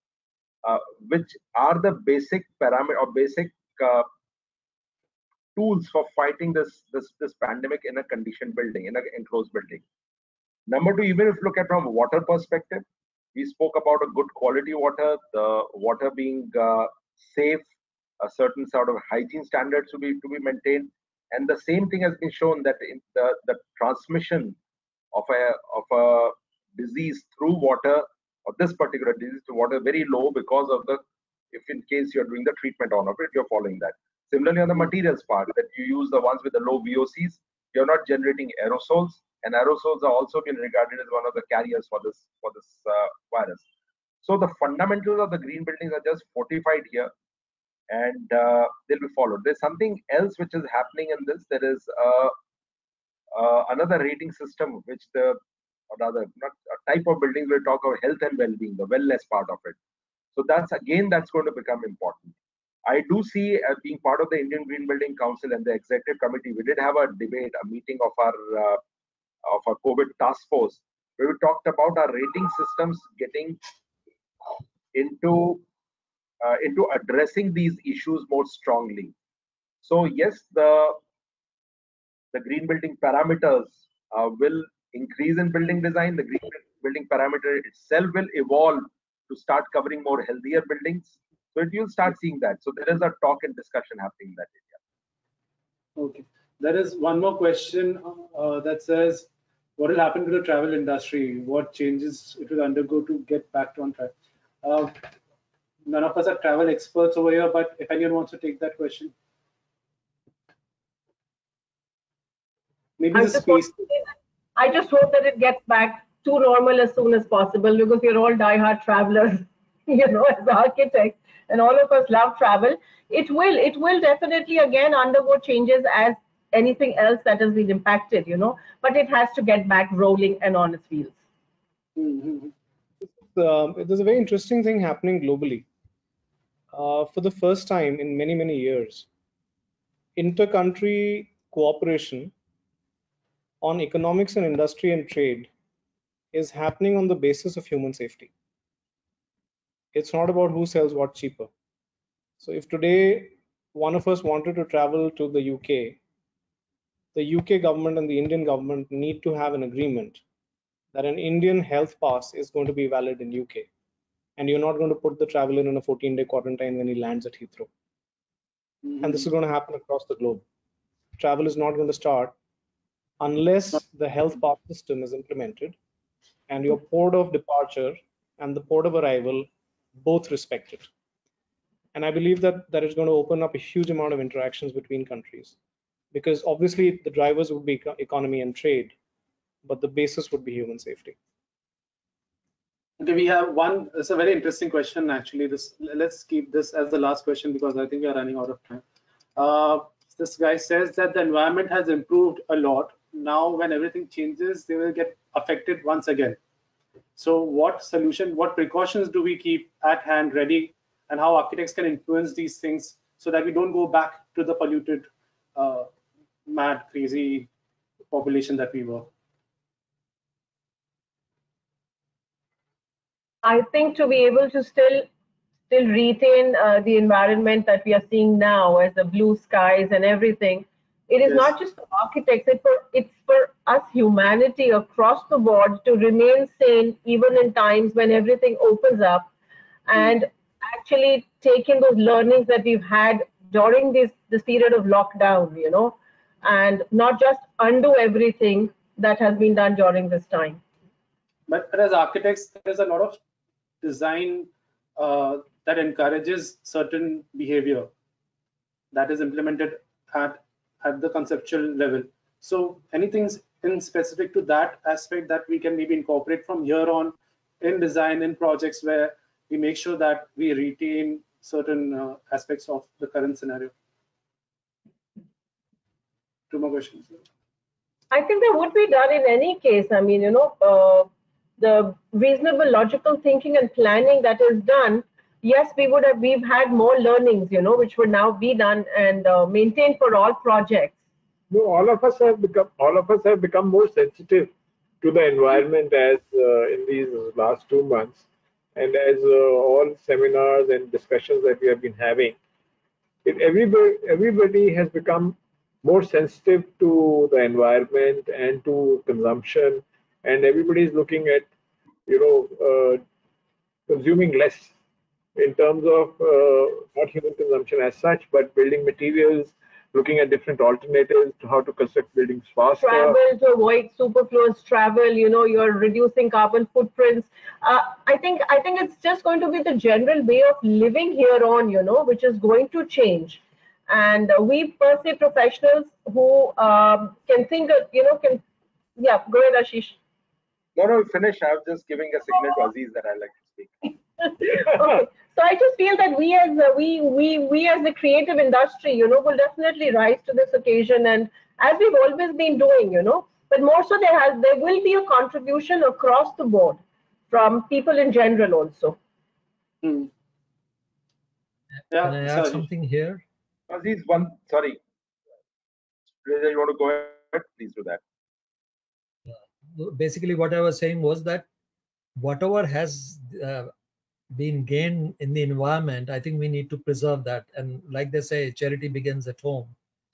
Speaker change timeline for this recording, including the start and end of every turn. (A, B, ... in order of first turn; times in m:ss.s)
0:00.6-0:04.1 A
0:05.6-0:09.8 A
0:10.7-0:17.7 A
0:18.2-0:24.6 A
0:25.1-0:43.6 A
0:44.2-0:47.1 A
0:47.9-0:52.3 A
0:53.3-0:55.4 A
0:55.9-0:59.8 A
1:00.3-1:02.3 A
1:02.8-1:08.8 A
1:09.4-1:13.6 A
1:14.5-1:15.6 A
1:16.4-1:19.1 A
1:19.8-1:21.0 A
1:22.3-1:34.7 A
1:36.0-1:45.0 B
1:45.8-1:49.1 B
1:53.0-1:53.8 B
1:53.1-2:11.2 C
2:12.0-2:12.5 B
2:13.0-2:15.6 D
2:16.7-2:19.0 D
2:20.2-2:22.3 D
2:23.6-2:25.5 D
2:26.3-2:28.3 D
2:29.9-2:31.5 D
2:32.4-2:36.0 D
2:37.1-2:40.2 D
2:40.9-2:43.7 D
2:44.4-2:47.7 D
2:48.8-2:49.2 B
2:49.0-2:50.4 D
2:51.2-2:52.3 D
2:53.2-2:55.8 D
2:56.5-3:00.9 D
3:01.9-3:05.5 D
3:06.1-3:08.9 D
3:09.6-3:11.2 D
3:13.0-3:18.8 B
3:19.4-3:26.4 B
3:27.2-3:35.9 B
3:36.5-3:37.5 B
3:38.1-3:39.1 B
3:43.4-3:45.0 C
3:45.7-3:59.3 C
3:51.2-3:51.5 B
3:59.9-4:10.6 C
4:11.5-4:13.2 B
4:13.8-4:17.9 B
4:18.9-4:33.7 B
4:36.5-4:37.2 B
4:38.1-4:41.1 C
4:41.6-4:51.0 C
4:51.5-4:58.2 E
4:58.7-5:02.4 E
5:03.2-5:11.5 E
5:12.1-5:13.0 E
5:13.9-5:14.7 E
5:15.4-5:23.2 E
5:22.8-5:38.4 C
5:39.0-5:40.0 C
5:40.8-5:43.9 A
5:44.2-5:56.8 C
5:57.3-5:59.0 C
5:59.8-6:00.1 B
6:01.9-6:02.7 B
6:01.9-6:03.2 F
6:03.7-6:04.8 A
6:06.2-6:08.0 A
6:09.3-6:11.4 F
6:12.2-6:13.7 F
6:14.3-6:19.7 F